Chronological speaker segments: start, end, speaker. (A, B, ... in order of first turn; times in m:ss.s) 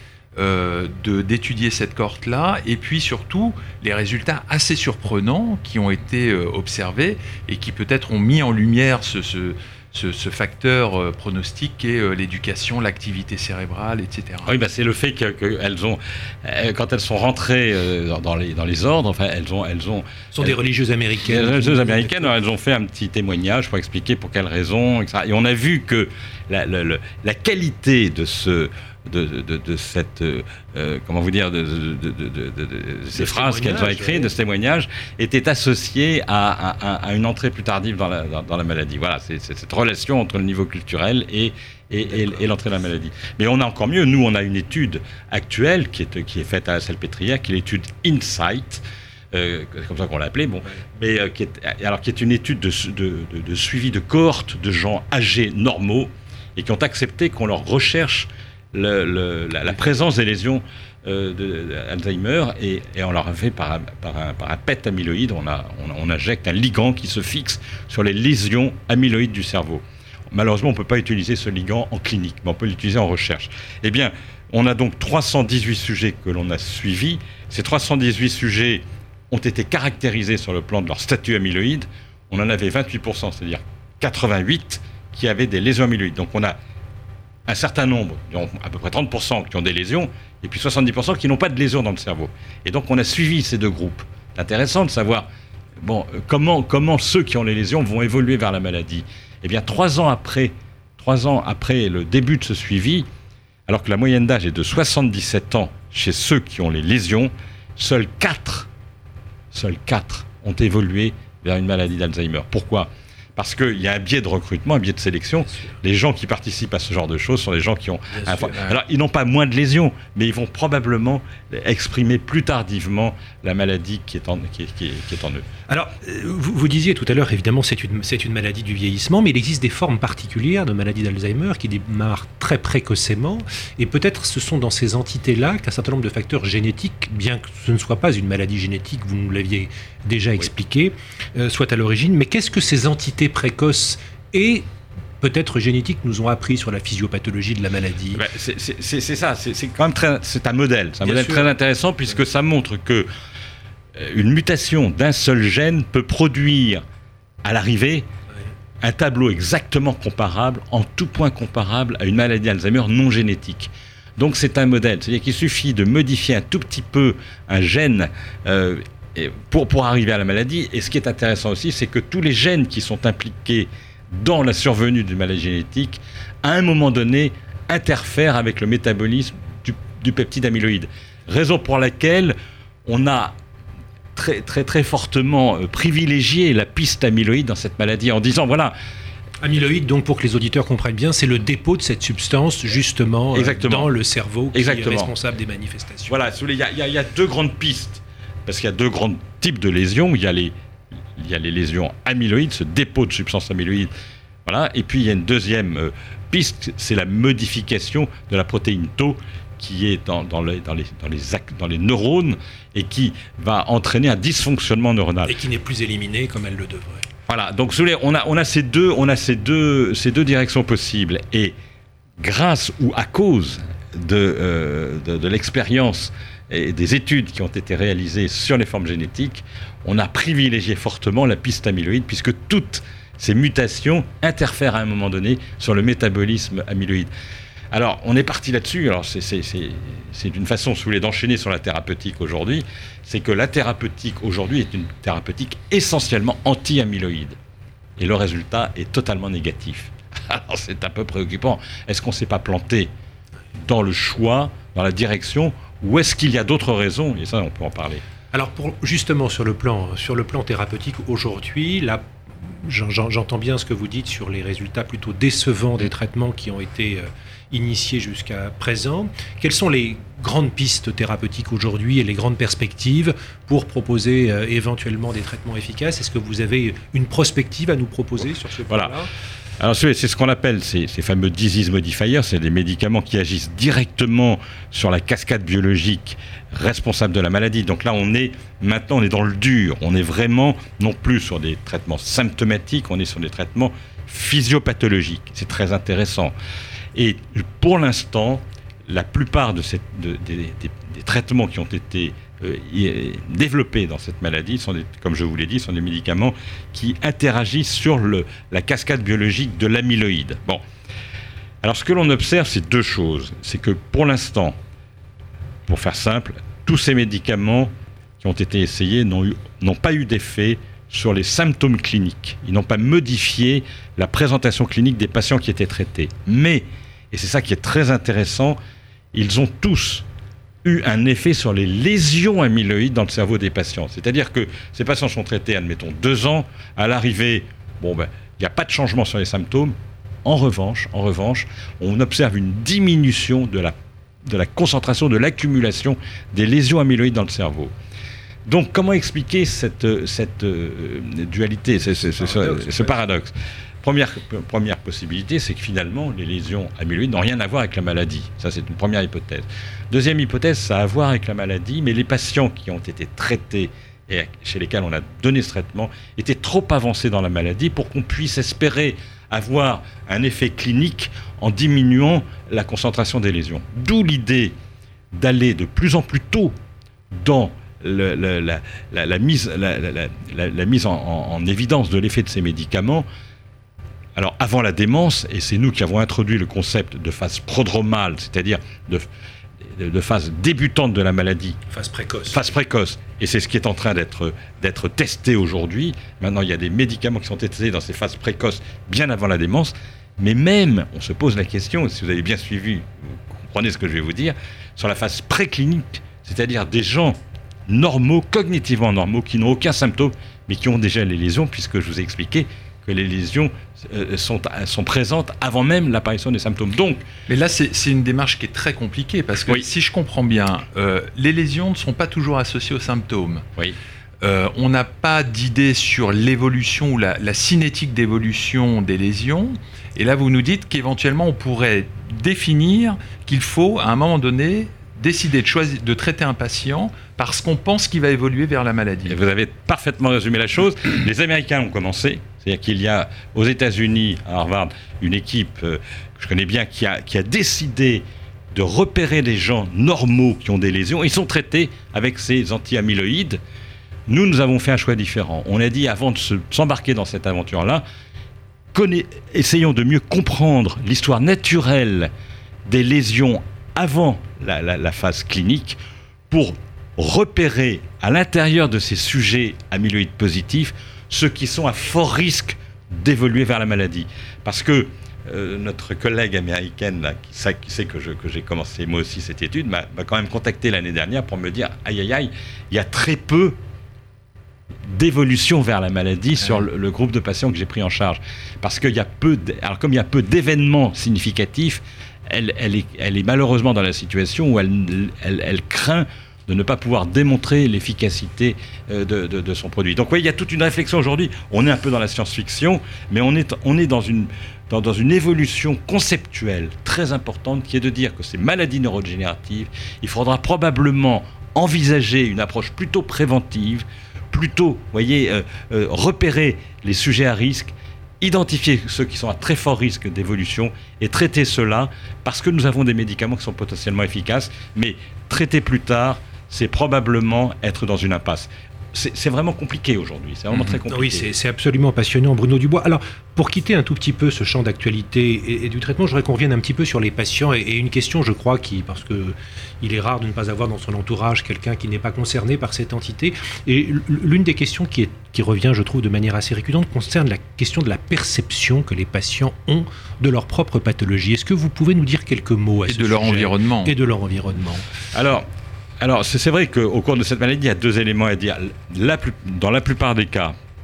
0:00.4-0:14.5 A
0:14.4-0:20.5 B
0:20.3-0:22.3 C
0:21.2-1:26.6 B
0:33.1-0:34.3 C
1:27.4-1:35.3 B
1:35.8-1:43.1 B
1:43.7-1:48.7 B
1:49.5-2:05.4 B
2:05.7-2:24.6 C
2:25.2-2:28.2 C
2:28.1-2:33.1 B
2:31.0-2:31.5 C
2:33.9-2:36.8 B
2:37.4-2:38.0 B
2:38.8-3:03.3 B
3:04.1-3:08.7 B
3:09.4-3:16.2 C
3:13.3-3:13.9 B
3:14.5-3:15.1 B
3:16.1-3:20.5 B
3:21.2-3:23.9 B
3:24.4-3:35.3 B
3:35.2-3:37.0 C
3:37.3-3:41.5 B
3:42.2-3:57.1 B
3:57.7-4:07.4 B
4:08.0-4:12.9 B
4:13.6-4:18.0 B
4:18.3-4:39.1 C
4:38.7-4:38.9 B
4:39.6-4:56.3 B
4:56.9-5:10.6 B
5:11.6-5:14.6 B
5:15.7-5:28.6 B
5:29.1-5:30.0 B
5:30.6-5:47.7 B
5:48.4-6:14.5 B
5:52.3-5:53.0 C
6:15.1-6:16.5 B
6:17.1-6:23.0 B
6:24.2-6:29.1 B
6:29.6-6:31.6 B
6:31.7-6:32.5 C
6:32.3-6:57.0 B
6:57.3-7:03.4 A
7:04.2-7:19.2 A
7:19.1-7:33.4 B
7:34.1-7:37.8 B
7:38.7-7:42.1 B
7:42.6-7:45.8 B
7:46.3-8:03.6 B
8:04.9-8:51.3 B
8:50.9-9:14.8 C
9:12.9-9:13.9 A
9:15.1-9:15.5 B
9:16.0-9:20.5 B